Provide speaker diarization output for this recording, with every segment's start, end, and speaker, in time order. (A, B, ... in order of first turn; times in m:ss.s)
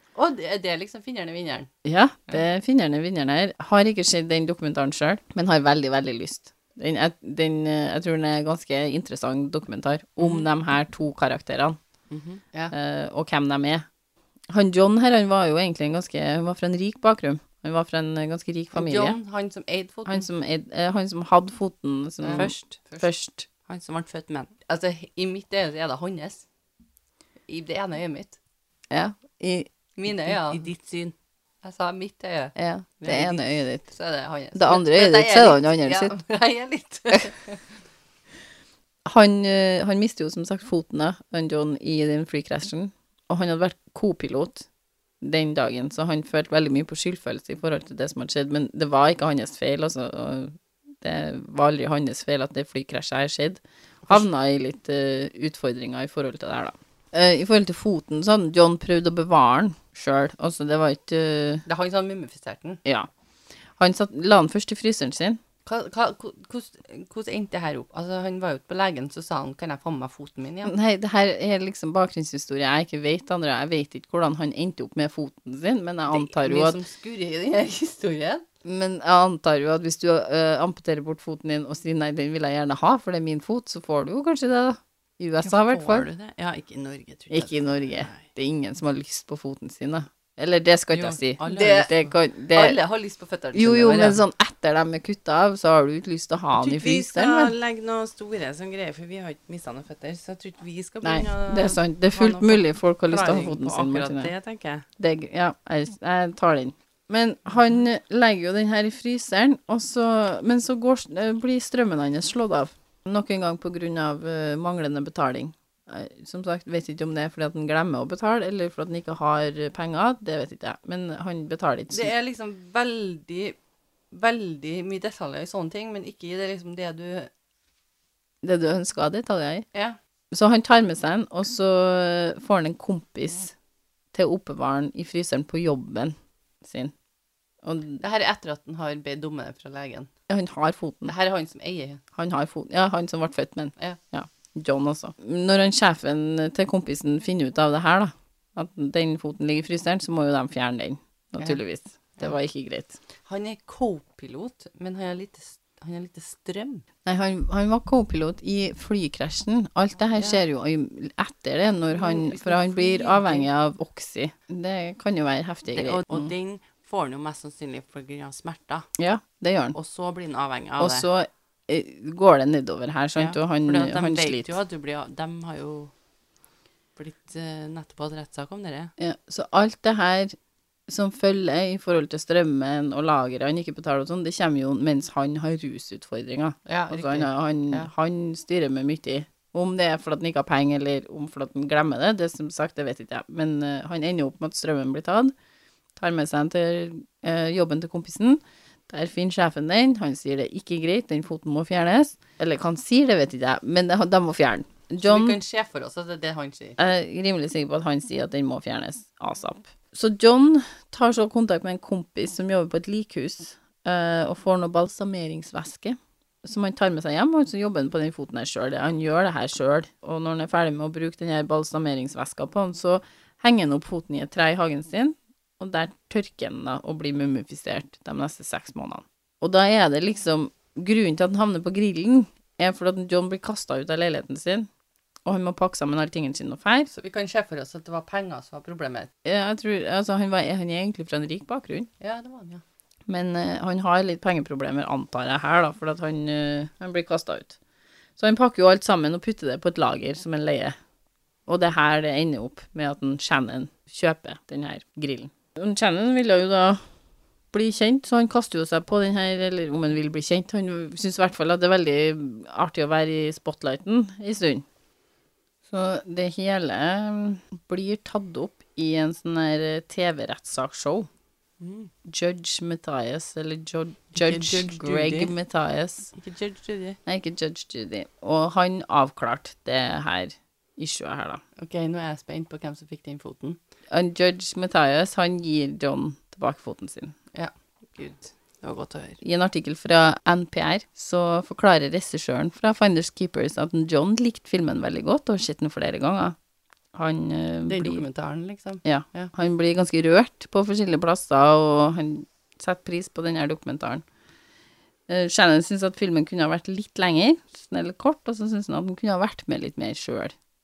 0:00.2-0:01.7 A
0:01.8-0:11.8 B
0:12.1-0:12.4 C
0:12.7-0:13.8 B
0:14.5-0:19.2 B
0:18.7-0:20.2 A
0:20.0-0:23.5 B
0:22.2-0:23.1 A
0:22.3-0:22.8 C
0:23.7-0:24.5 C
0:24.6-0:26.4 A
0:27.5-0:28.4 A
0:28.9-0:29.7 B
0:30.0-0:30.7 A
0:30.3-0:31.1 C
0:31.6-0:32.5 A
0:32.5-0:33.8 B
0:33.0-0:37.6 A
0:34.5-0:36.2 B
0:39.0-0:44.7 B
0:45.2-1:01.6 B
1:01.7-1:02.8 A
1:03.8-1:05.4 B
1:05.6-1:10.7 A
1:10.6-1:16.8 B
1:16.1-1:18.4 A
1:18.6-1:26.1 B
1:25.4-1:28.2 C
1:27.3-1:32.8 B
1:30.9-1:31.7 C
1:31.4-1:34.2 A
1:33.5-1:37.5 B
1:36.5-1:44.8 C
1:41.0-1:44.3 B
1:45.0-2:02.1 B
2:01.9-2:03.6 A
2:04.1-2:07.3 A
2:08.4-2:09.6 B
2:10.3-2:13.5 B
2:14.1-2:16.9 B
2:17.6-2:18.0 B
2:18.0-2:20.1 A
2:20.3-2:21.1 B
2:21.0-2:22.0 A
2:22.1-2:33.0 B
2:33.2-2:36.8 A
2:37.0-2:46.3 B
2:41.9-2:43.5 A
2:45.7-2:48.9 C
2:49.0-2:49.8 B
2:49.7-2:51.0 C
2:50.8-2:54.5 B
2:53.2-2:55.9 C
2:57.0-2:58.9 C
2:59.0-3:00.3 B
3:00.9-3:15.3 B
3:06.7-3:07.9 A
3:16.0-3:25.4 B
3:25.0-3:26.8 A
3:26.8-3:54.7 B
3:55.2-3:56.9 B
3:56.9-3:59.1 A
3:59.2-4:01.9 B
4:02.0-4:02.6 A
4:03.1-4:07.6 B
4:08.2-4:10.8 B
4:11.5-4:16.8 B
4:17.5-4:24.6 B
4:25.7-4:31.1 B
4:31.6-4:31.9 C
4:32.0-4:36.1 B
4:34.1-4:35.3 A
4:36.2-4:37.0 C
4:37.0-4:41.4 B
4:41.6-4:43.6 A
4:43.9-4:47.1 B
4:47.9-4:49.2 C
4:49.2-4:56.4 B
4:56.9-4:58.0 B
4:57.7-4:59.3 A
4:58.8-5:04.0 B
5:05.1-5:10.3 B